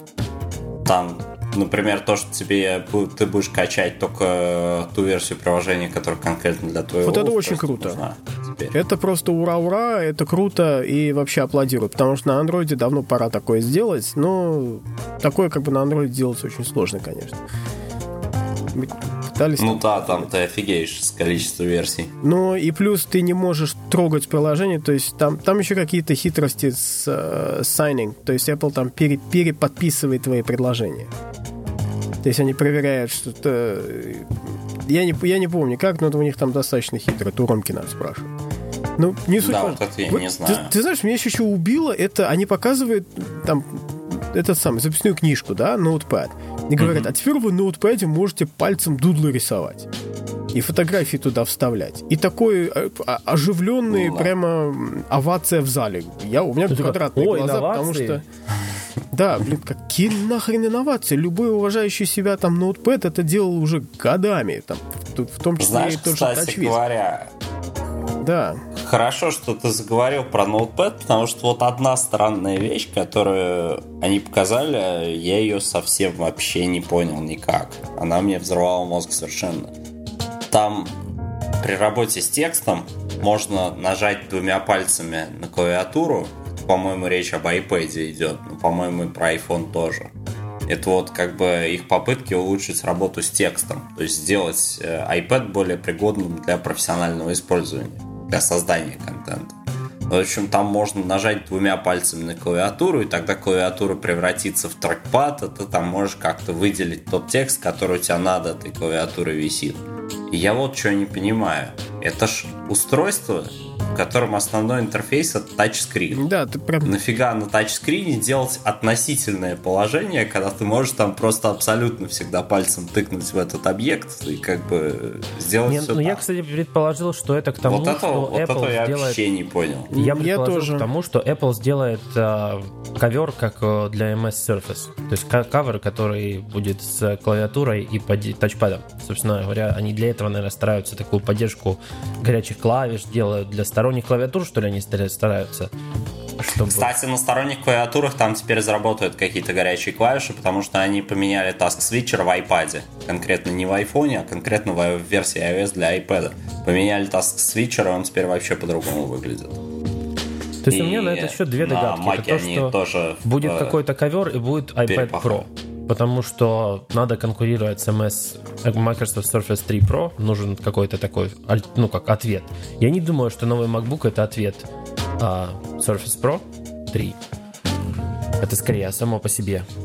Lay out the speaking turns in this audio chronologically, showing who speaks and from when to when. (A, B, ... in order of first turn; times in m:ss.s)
0:00.8-0:08.7 A
0:07.0-0:08.0 B
0:08.7-0:17.4 B
0:18.7-0:20.3 B
0:19.6-0:22.1 A
0:22.2-0:31.1 B
0:32.2-0:34.3 B
0:34.9-0:38.3 B
0:39.0-0:49.9 B
0:39.4-0:40.7 A
0:46.8-0:47.1 A
0:50.5-0:58.2 B
0:53.9-0:54.3 A
0:56.7-0:58.2 C
0:59.1-1:06.8 B
1:05.6-1:07.3 A
1:08.2-1:08.6 B
1:08.8-1:19.7 A
1:20.5-1:21.0 A
1:21.6-1:30.1 A
1:30.7-1:56.2 A
1:56.1-1:56.9 B
1:56.8-2:06.2 A
2:05.7-2:09.2 C
2:07.6-2:09.9 A
2:09.9-2:10.9 B
2:09.9-2:25.7 C
2:26.4-2:26.9 C
2:26.6-2:39.6 A
2:40.6-2:42.7 C
2:40.7-2:43.8 A
2:43.2-2:54.7 C
2:44.9-2:45.4 A
2:55.2-2:57.2 C
2:58.4-2:59.7 C